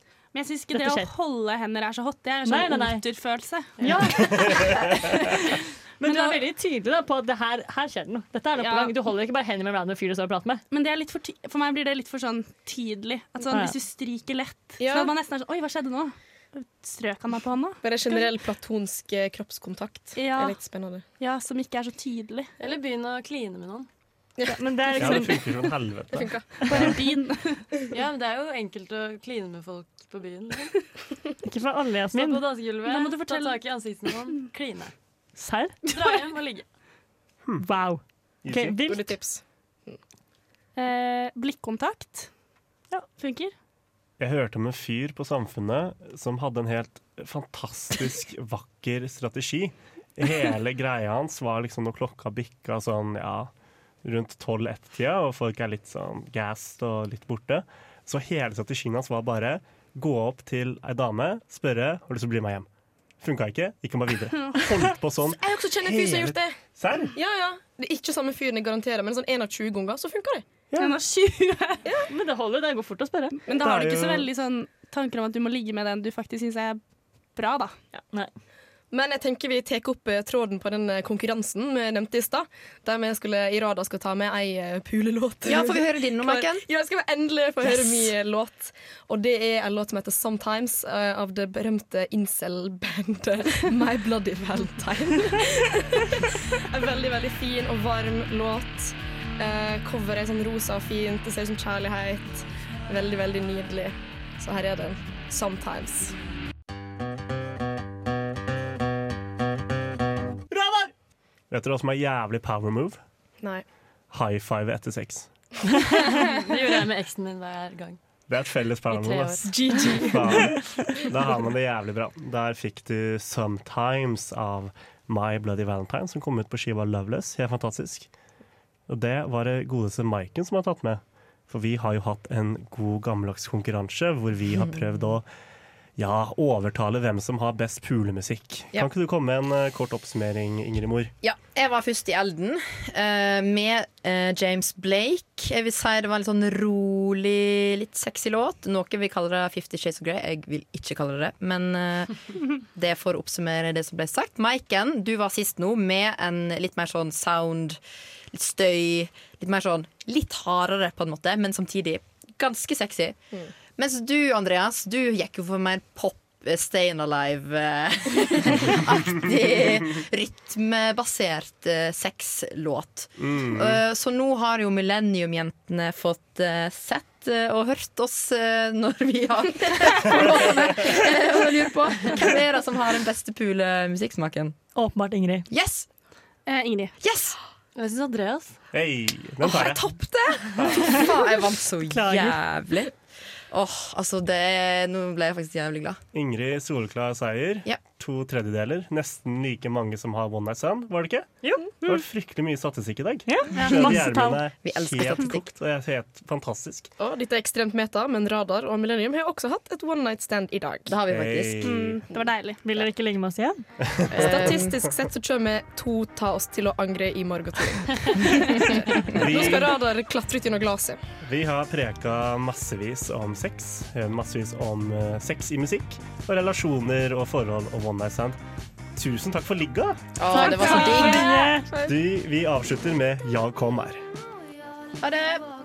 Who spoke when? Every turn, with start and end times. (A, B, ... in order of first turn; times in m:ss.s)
0:00.3-0:05.1 A
0:00.7-0:01.1 B
0:02.4-0:03.0 B
0:03.8-0:04.5 B
0:04.3-0:05.0 C
0:06.0-0:10.6 B
0:06.0-0:06.4 A
0:08.6-0:08.9 A
0:10.7-0:18.3 A
0:14.8-0:15.1 D
0:17.8-0:21.0 D
0:20.2-0:20.6 A
0:21.2-0:22.5 A
0:22.6-0:23.9 E
0:24.4-0:25.2 D
0:24.5-0:25.4 B
0:25.0-0:27.0 C
0:26.1-0:26.8 D
0:26.6-0:27.6 A
0:27.9-0:30.7 E
0:31.4-0:32.4 B
0:32.1-0:34.9 E
0:32.8-0:33.6 A
0:35.4-0:35.8 B
0:35.8-0:36.6 E
0:37.6-0:39.2 B
0:38.4-0:38.8 C
0:38.8-0:40.0 D
0:40.8-0:42.3 A
0:43.2-0:43.5 A
0:44.2-0:53.5 C
0:54.0-1:02.7 C
1:03.2-1:07.2 C
1:05.4-1:06.6 D
1:07.1-1:10.5 D
1:10.7-1:11.0 C
1:10.8-1:11.9 A
1:12.1-1:13.4 B
1:13.5-1:13.8 D
1:13.5-1:16.8 A
1:13.6-1:14.3 C
1:17.4-1:17.8 A
1:18.9-1:46.1 D
1:25.4-1:26.7 F
1:50.5-1:50.9 C
1:51.5-1:53.0 C
1:54.1-1:55.3 C
1:56.0-1:58.0 E
1:58.3-2:08.1 C
1:58.9-1:59.5 E
1:59.6-2:00.5 D
2:08.9-2:15.2 C
2:16.0-2:21.1 C
2:21.2-2:37.8 F
2:38.3-2:43.2 F
2:43.8-3:04.6 F
2:53.2-2:53.8 C
3:04.8-3:05.5 B
3:05.5-3:05.9 F
3:06.5-3:06.9 A
3:07.0-3:07.4 F
3:07.7-3:08.6 E
3:08.7-3:09.9 C
3:09.4-3:11.0 D
3:10.5-3:10.9 C
3:10.7-3:12.9 F
3:11.9-3:12.4 B
3:13.5-3:16.0 F
3:16.1-3:26.9 C
3:21.4-3:21.7 B
3:23.3-3:24.4 B
3:23.7-3:24.1 F
3:24.6-3:25.5 F
3:27.0-3:31.0 D
3:30.9-3:31.8 F
3:31.1-3:32.0 C
3:31.6-3:32.6 A
3:32.6-3:33.6 B
3:33.8-3:34.6 C
3:34.1-3:34.7 F
3:34.1-3:41.0 D
3:39.0-3:39.8 C
3:41.2-3:48.4 C
3:49.0-3:50.1 C
3:50.2-3:51.6 F
3:50.3-3:51.7 B
3:50.5-3:51.0 A
3:51.8-3:54.0 C
3:55.0-3:55.5 F